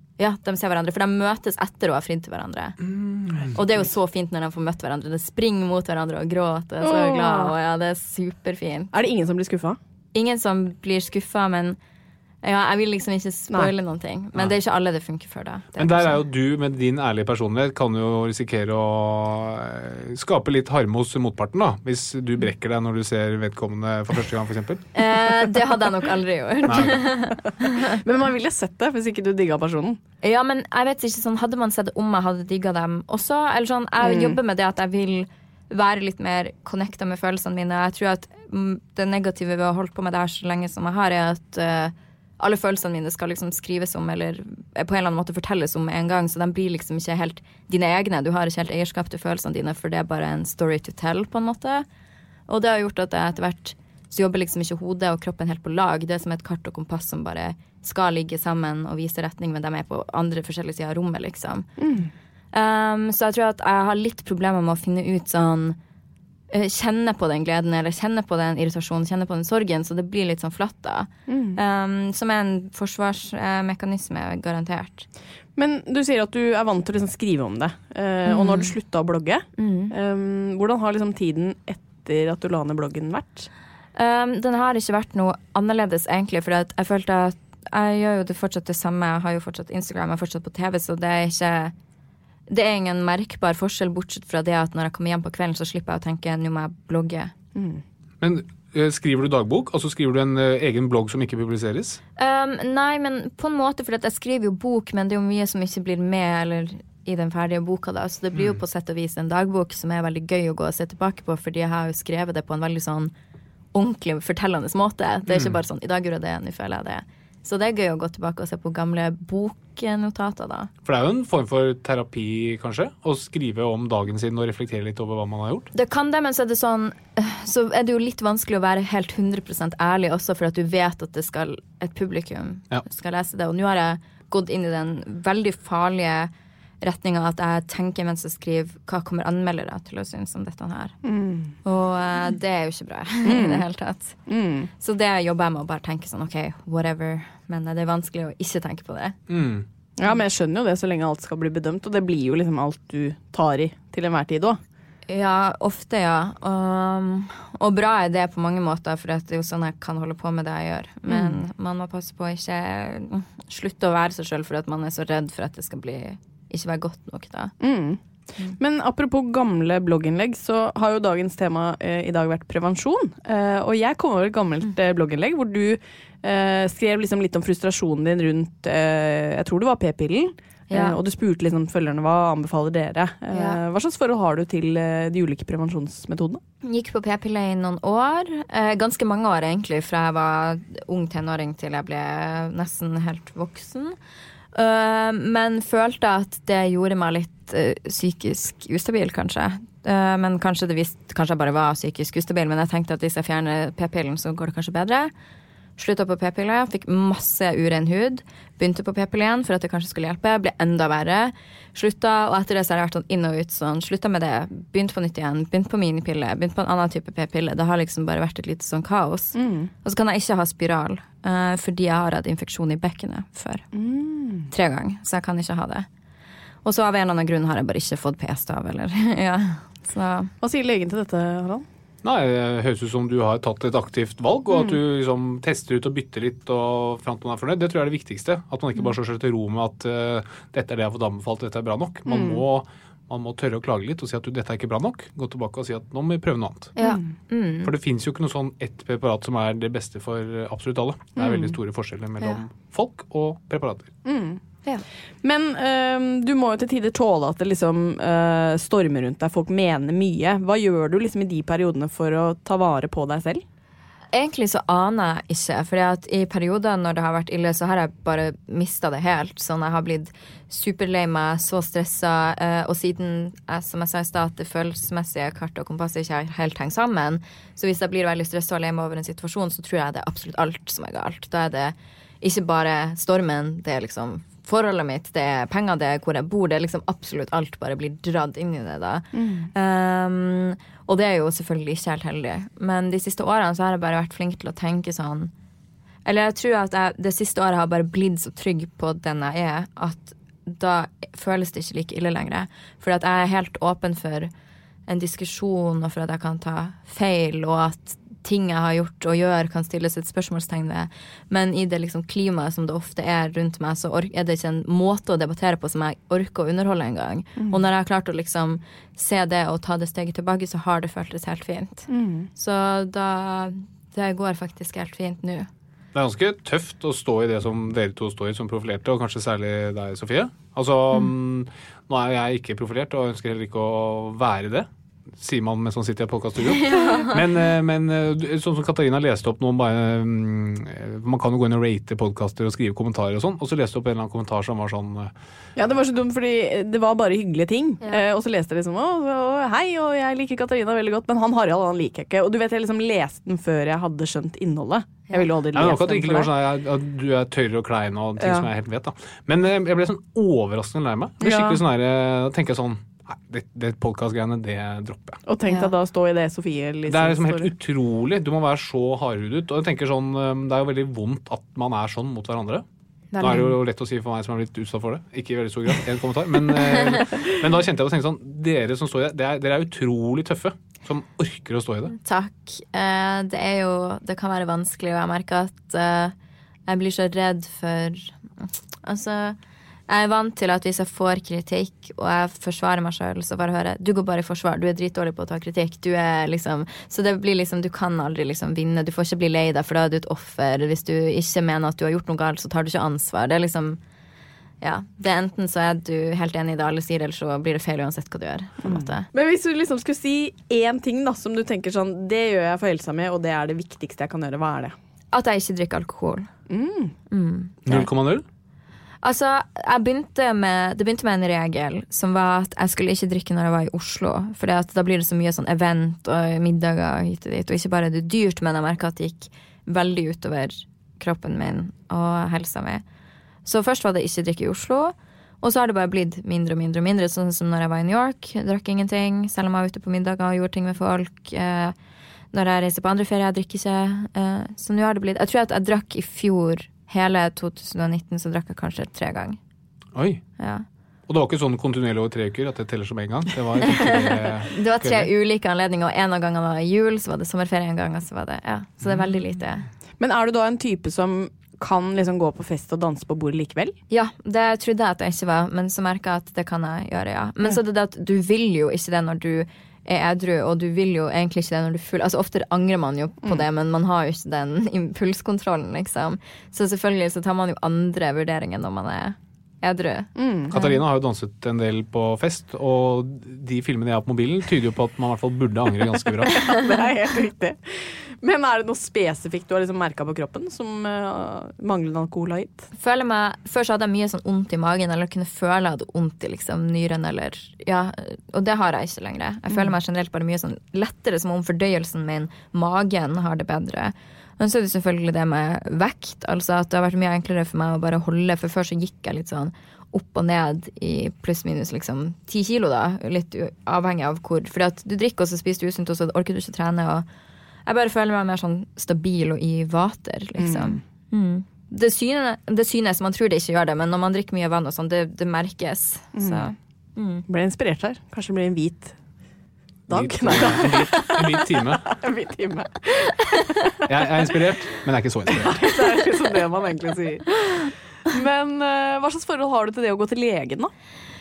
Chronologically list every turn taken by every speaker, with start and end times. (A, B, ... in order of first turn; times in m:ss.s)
0:00.2-0:02.8 A
0:02.8-0:03.5 B
0:03.5-0:08.9 A
0:06.8-0:07.5 C
0:08.9-0:09.8 C
0:10.1-0:11.8 A
0:12.4-0:16.2 A
0:15.8-0:24.8 B
0:24.9-0:28.0 A
0:27.8-0:30.0 C
0:30.2-0:51.8 A
0:34.0-0:34.4 C
0:52.5-1:01.7 A
1:01.8-1:02.1 C
1:02.5-1:05.8 A
1:06.5-1:15.0 A
1:11.3-1:11.6 C
1:15.6-1:23.5 C
1:18.2-1:18.7 A
1:19.6-1:19.9 A
1:24.0-1:31.7 A
1:32.5-1:37.3 A
1:37.6-1:37.8 C
1:38.2-1:42.0 B
1:42.2-1:53.1 A
1:53.7-2:00.7 A
1:55.3-1:55.6 B
2:00.8-2:05.7 B
2:05.7-2:16.3 A
2:16.8-2:20.9 A
2:21.0-2:21.5 C
2:21.6-2:24.2 A
2:23.2-2:23.6 C
2:24.3-2:24.7 C
2:24.8-2:29.2 A
2:29.3-2:29.6 B
2:30.0-2:34.6 C
2:35.1-2:47.5 A
2:41.1-2:41.4 C
2:47.6-3:06.4 C
3:00.7-3:01.0 A
3:03.3-3:03.6 A
3:06.6-3:14.0 A
3:14.5-3:25.1 A
3:25.8-3:43.6 A
3:39.3-3:39.7 C
3:43.7-3:44.5 C
3:44.5-3:45.8 A
3:46.6-3:50.3 A
3:50.4-3:51.6 C
3:52.0-4:06.7 B
4:02.1-4:02.4 C
4:06.8-4:07.7 A
4:06.8-4:07.1 C
4:07.6-4:13.9 B
4:11.2-4:11.6 C
4:14.0-4:14.4 C
4:15.2-4:23.4 C
4:24.1-4:55.3 A
4:49.1-4:49.5 C
4:56.0-5:04.3 A
5:04.9-5:25.5 A
5:17.4-5:17.6 C
5:21.9-5:22.3 C
5:25.9-5:45.1 B
5:36.4-5:37.3 A
5:45.6-5:56.3 C
5:55.5-6:05.2 B
5:58.2-5:58.5 C
6:01.2-6:01.6 C
6:05.3-6:07.5 C
6:05.4-6:05.7 A
6:06.9-6:12.6 B
6:13.1-6:13.6 A
6:13.2-6:21.9 B
6:16.5-6:17.0 A
6:21.9-6:26.1 A
6:26.7-6:28.2 A
6:28.8-6:29.4 A
6:29.9-6:43.8 A
6:44.6-6:49.1 A
6:48.6-6:54.7 C
6:55.1-6:56.3 A
6:56.5-6:56.9 C
6:57.1-6:57.9 A
6:57.6-6:58.2 B
6:59.0-7:12.8 A
7:13.4-7:21.7 A
7:22.3-7:29.4 A
7:29.9-7:30.2 B
7:30.4-7:30.6 A
7:31.1-7:35.1 B
7:33.7-7:39.7 A
7:40.0-7:43.8 C
7:43.9-8:00.8 A
8:00.2-8:00.5 C
8:00.5-8:06.3 B
8:06.2-8:12.7 C
8:12.7-8:37.0 A
8:37.6-8:47.2 A
8:40.4-8:40.8 C
8:46.2-8:46.5 C
8:47.3-8:48.9 C
8:49.9-8:54.3 C
8:49.9-8:51.8 B
8:53.8-8:55.6 B
8:55.3-9:00.7 C